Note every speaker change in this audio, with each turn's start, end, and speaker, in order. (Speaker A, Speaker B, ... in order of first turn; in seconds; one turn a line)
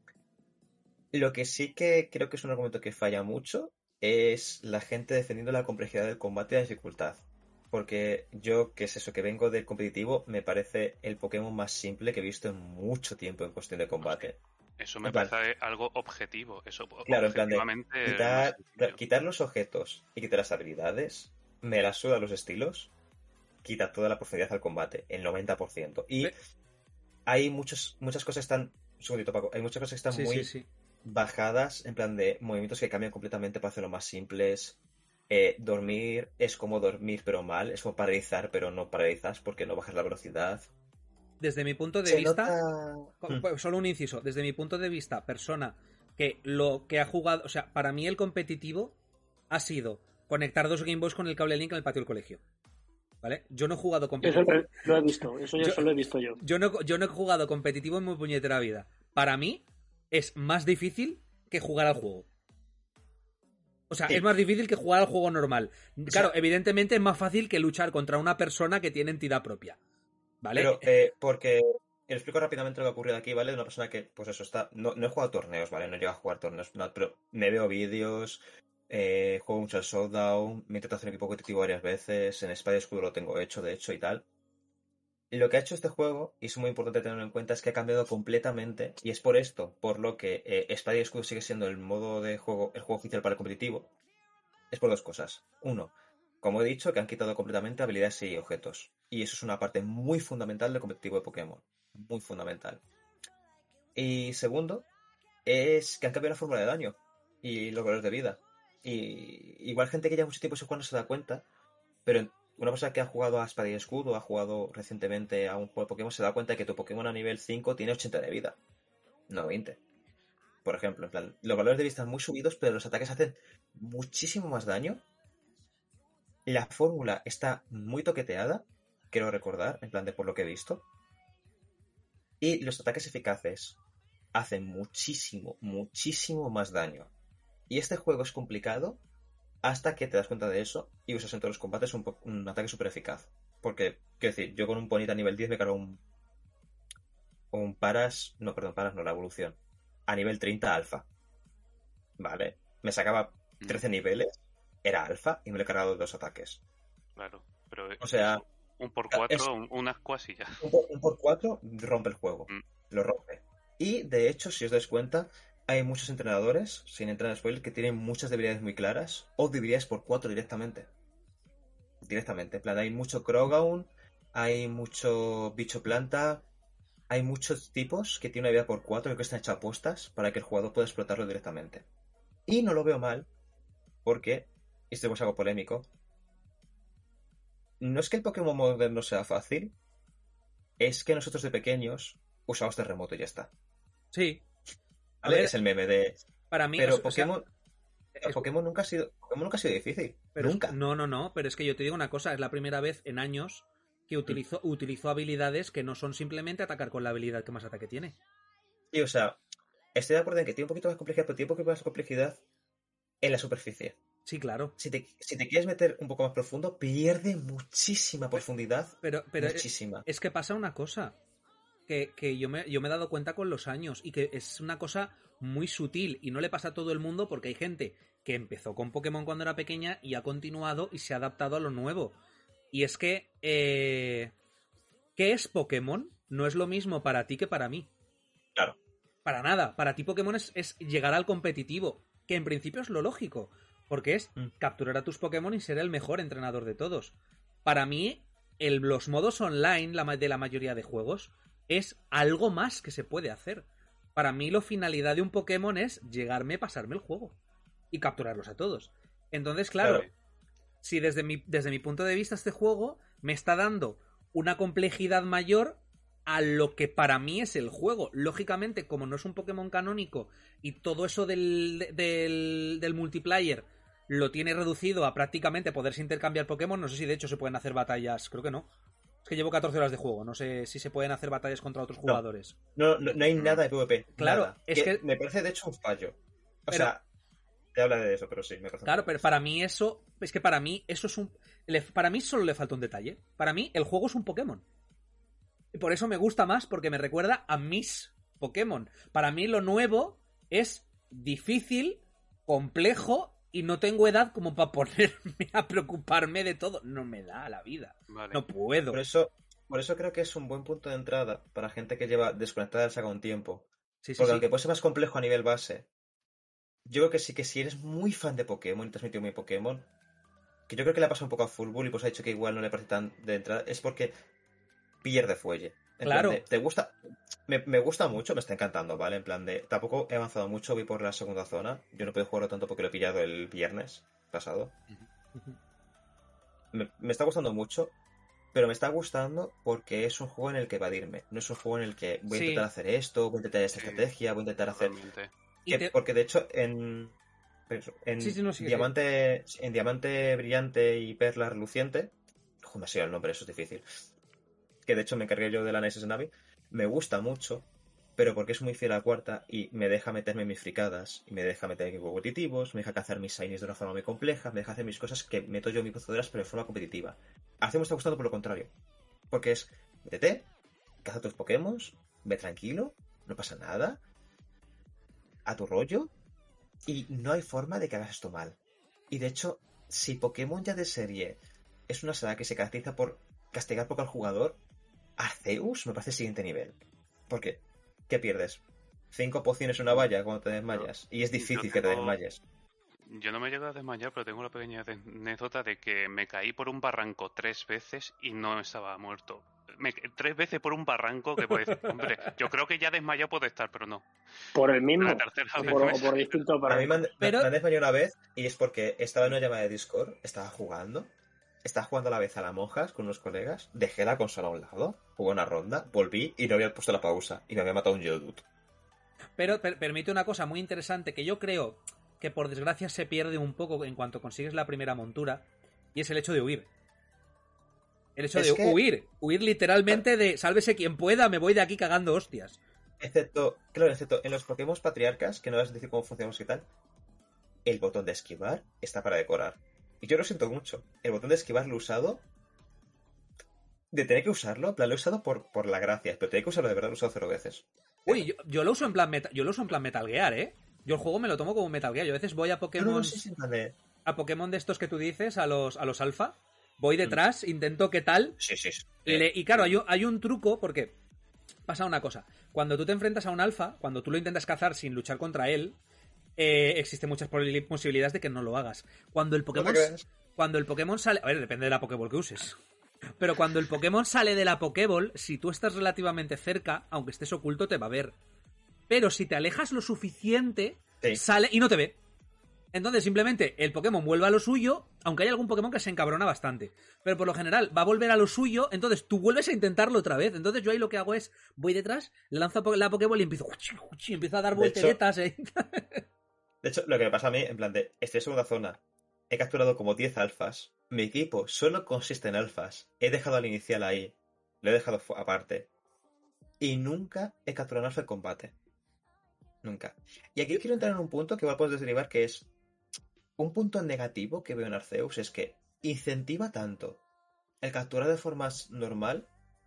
Speaker A: 1.1-14.4
Speaker B: 14.0-19.0
Speaker A: 15.0-15.3
Speaker A: 17.1-22.9
Speaker A: 23.6-26.3
Speaker A: 27.3-30.5
Speaker C: 30.1-30.7
Speaker A: 31.0-34.8
Speaker A: 35.3-40.7
Speaker C: 41.4-42.5
Speaker A: 42.0-43.4
Speaker C: 43.2-49.0
Speaker C: 49.5-52.4
Speaker C: 53.2-54.9
Speaker D: 54.2-56.4
Speaker C: 55.6-62.3
Speaker C: 63.9-69.8
Speaker A: 66.1-66.3
Speaker C: 70.4-70.9
Speaker A: 70.5-84.2
Speaker A: 85.3-93.9
Speaker A: 94.7-102.8
Speaker A: 103.9-104.8
Speaker A: 105.4-111.4
Speaker A: 112.0-118.6
Speaker A: 119.3-119.8
Speaker A: 120.6-125.0
Speaker A: 126.5-130.8
Speaker A: 132.4-133.8
Speaker A: 134.3-137.1
Speaker A: 137.7-139.0
Speaker A: 139.6-146.0
Speaker A: 147.5-151.1
Speaker A: 152.2-156.6
Speaker B: 157.2-160.6
Speaker A: 158.0-158.4
Speaker A: 159.1-159.5
Speaker A: 160.6-170.9
Speaker A: 172.0-176.4
Speaker A: 177.1-181.8
Speaker A: 182.5-183.3
Speaker A: 184.0-185.9
Speaker A: 187.8-189.7
Speaker A: 190.8-193.5
Speaker C: 194.1-194.4
Speaker C: 195.2-195.5
Speaker A: 195.2-196.2
Speaker C: 196.5-197.3
Speaker A: 196.8-197.5
Speaker C: 198.2-198.4
Speaker A: 198.2-200.8
Speaker C: 200.3-208.2
Speaker A: 208.9-209.4
Speaker A: 209.9-212.4
Speaker A: 213.2-213.9
Speaker C: 214.2-214.7
Speaker A: 214.8-220.1
Speaker C: 219.0-221.2
Speaker C: 221.9-232.2
Speaker C: 232.7-234.3
Speaker C: 235.2-237.9
Speaker C: 239.2-257.4
Speaker C: 257.9-260.1
Speaker A: 259.8-260.1
Speaker C: 260.8-278.7
Speaker C: 279.2-282.5
Speaker A: 282.8-287.0
Speaker C: 284.1-285.0
Speaker A: 287.7-289.2
Speaker C: 288.8-294.6
Speaker C: 295.7-309.0
Speaker B: 308.1-308.4
Speaker A: 308.9-313.7
Speaker C: 314.0-314.5
Speaker A: 314.2-315.9
Speaker A: 316.9-319.9
Speaker A: 320.7-324.1
Speaker A: 325.0-334.7
Speaker C: 326.1-326.4
Speaker A: 336.7-337.9
Speaker A: 338.5-345.0
Speaker C: 342.3-342.7
Speaker B: 343.8-344.0
Speaker B: 344.7-345.3
Speaker C: 345.7-345.9
Speaker A: 345.7-347.1
Speaker A: 347.7-353.8
Speaker C: 348.2-348.9
Speaker A: 354.8-368.7
Speaker A: 369.3-370.5
Speaker A: 371.0-374.0
Speaker A: 375.4-376.1
Speaker A: 376.9-378.6
Speaker A: 379.1-384.6
Speaker A: 385.2-386.8
Speaker A: 387.3-392.4
Speaker B: 390.7-392.2
Speaker B: 393.1-404.1
Speaker C: 401.5-402.3
Speaker D: 404.5-407.1
Speaker B: 405.0-406.4
Speaker A: 406.6-411.1
Speaker C: 407.2-407.5
Speaker A: 411.6-418.4
Speaker C: 419.4-426.7
Speaker C: 428.2-432.6
Speaker A: 428.3-428.8
Speaker A: 433.0-436.7
Speaker A: 437.6-442.2
Speaker A: 443.9-448.3
Speaker C: 448.1-453.2
Speaker A: 452.8-453.8
Speaker C: 454.1-458.4
Speaker A: 458.4-459.8
Speaker C: 459.0-460.9
Speaker C: 461.7-465.8
Speaker C: 466.4-472.6
Speaker A: 469.5-470.1
Speaker C: 473.2-478.1
Speaker C: 478.9-482.0
Speaker C: 482.7-496.0
Speaker A: 494.5-495.0
Speaker A: 496.6-505.7
Speaker A: 506.6-508.5
Speaker A: 509.6-512.5
Speaker A: 513.4-517.0
Speaker A: 517.6-519.3